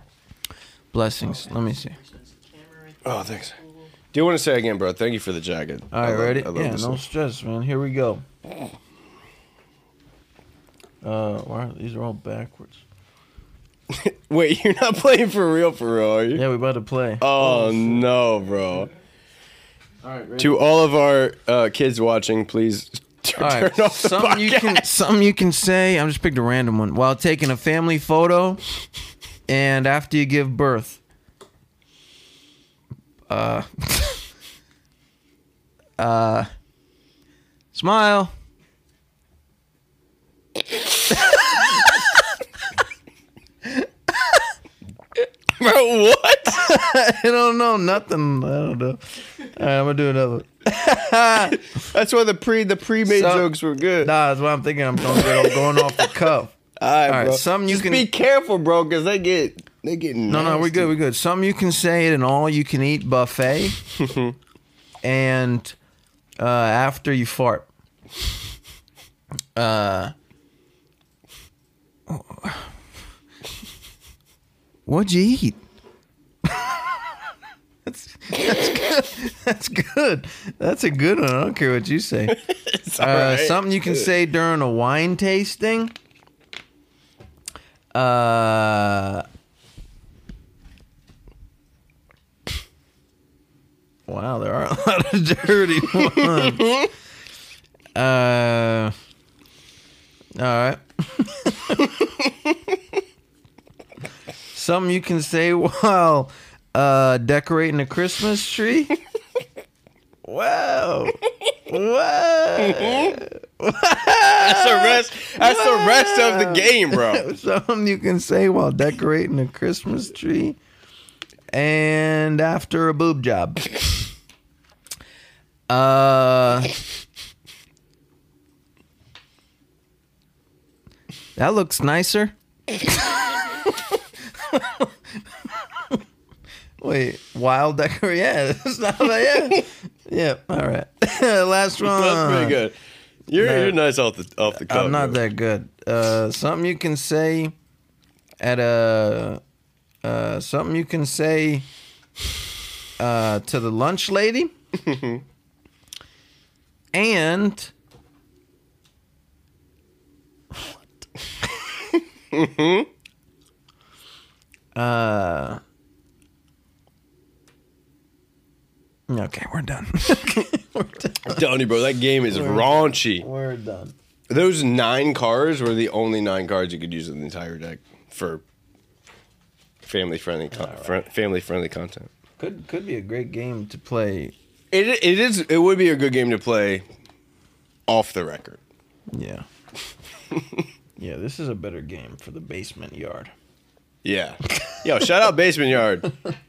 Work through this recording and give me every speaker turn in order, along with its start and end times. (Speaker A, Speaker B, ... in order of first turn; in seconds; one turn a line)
Speaker A: 0.9-1.9
Speaker B: 1.2-3.9
Speaker C: 3.0-3.5
Speaker C: 4.1-7.0
Speaker A: 5.9-8.2
Speaker A: 11.0-12.8
Speaker C: 13.9-16.4
Speaker A: 16.3-18.0
Speaker C: 17.2-18.9
Speaker A: 20.0-20.6
Speaker C: 20.4-24.9
Speaker A: 23.4-28.6
Speaker A: 29.5-31.0
Speaker A: 33.3-34.2
Speaker A: 36.0-36.5
Speaker A: 37.7-38.3
Speaker A: 41.1-42.2
Speaker A: 43.6-44.5
Speaker C: 45.6-46.7
Speaker A: 46.5-51.6
Speaker C: 51.6-54.1
Speaker A: 53.0-56.5
Speaker C: 55.1-56.1
Speaker C: 56.8-60.9
Speaker A: 57.1-58.1
Speaker A: 60.3-63.8
Speaker C: 64.0-64.3
Speaker A: 65.0-65.7
Speaker A: 66.4-67.7
Speaker A: 69.5-70.1
Speaker A: 72.1-72.7
Speaker A: 74.8-75.6
Speaker A: 76.4-77.3
Speaker A: 77.8-82.3
Speaker C: 82.3-84.1
Speaker A: 83.0-85.9
Speaker A: 87.9-89.2
Speaker A: 94.1-96.9
Speaker A: 97.9-98.9
Speaker A: 100.3-102.3
Speaker A: 104.5-109.0
Speaker A: 110.2-120.6
Speaker C: 112.6-113.2
Speaker C: 114.3-117.2
Speaker A: 121.5-124.0
Speaker A: 125.7-126.7
Speaker A: 131.3-136.0
Speaker A: 136.8-142.6
Speaker C: 141.8-142.8
Speaker C: 143.3-145.2
Speaker A: 143.4-143.8
Speaker A: 144.5-147.5
Speaker A: 148.4-149.4
Speaker A: 150.0-151.7
Speaker A: 153.0-154.5
Speaker C: 154.8-155.2
Speaker A: 156.9-157.7
Speaker C: 162.3-162.9
Speaker A: 164.7-165.6
Speaker A: 169.1-171.5
Speaker C: 171.2-173.2
Speaker A: 172.3-173.9
Speaker C: 174.3-178.4
Speaker C: 179.8-182.1
Speaker A: 180.6-180.9
Speaker A: 182.4-184.3
Speaker C: 184.7-186.8
Speaker C: 187.9-188.6
Speaker A: 189.1-189.4
Speaker C: 190.3-190.6
Speaker A: 191.0-193.3
Speaker C: 194.0-196.1